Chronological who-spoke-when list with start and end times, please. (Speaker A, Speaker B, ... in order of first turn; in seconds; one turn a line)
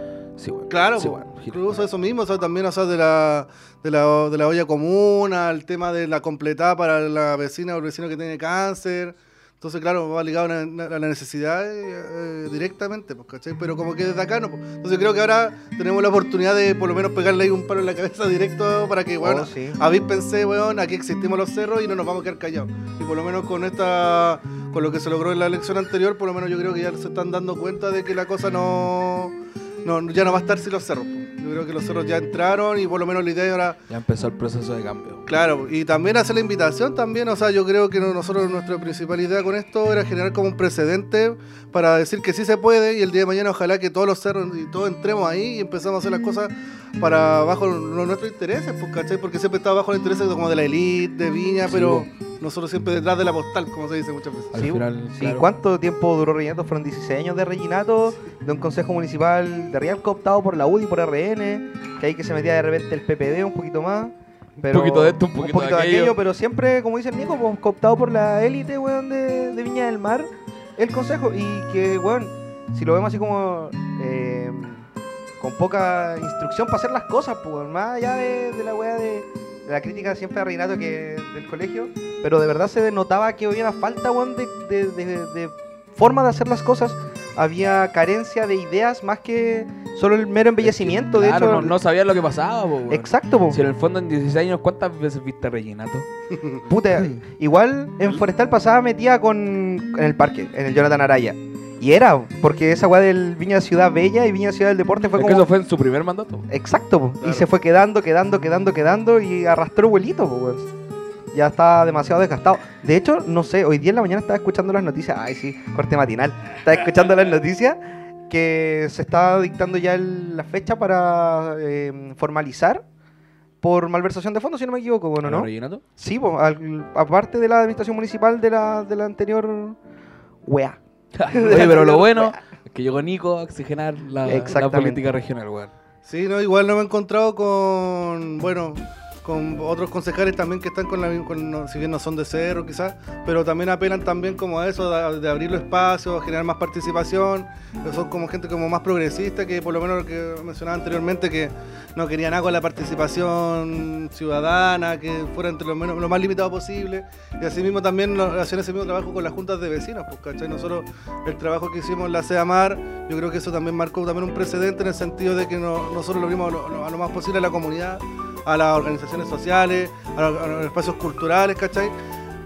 Speaker A: 0.4-1.9
Speaker B: 0.7-33.8
Speaker C: 19.2-19.8
Speaker A: 33.9-35.2
Speaker B: 35.3-54.6
Speaker A: 51.7-52.1
Speaker A: 54.5-55.5
Speaker C: 54.5-74.9
Speaker A: 64.7-66.2
Speaker C: 75.4-91.8
Speaker A: 90.6-96.1
Speaker C: 92.9-93.6
Speaker C: 96.7-105.5
Speaker A: 105.2-106.5
Speaker C: 106.5-110.7
Speaker B: 107.2-107.5
Speaker C: 111.3-122.8
Speaker C: 123.6-129.8
Speaker A: 125.2-125.8
Speaker C: 130.4-130.8
Speaker A: 131.2-135.7
Speaker C: 131.3-132.4
Speaker C: 134.2-135.0
Speaker B: 136.1-171.9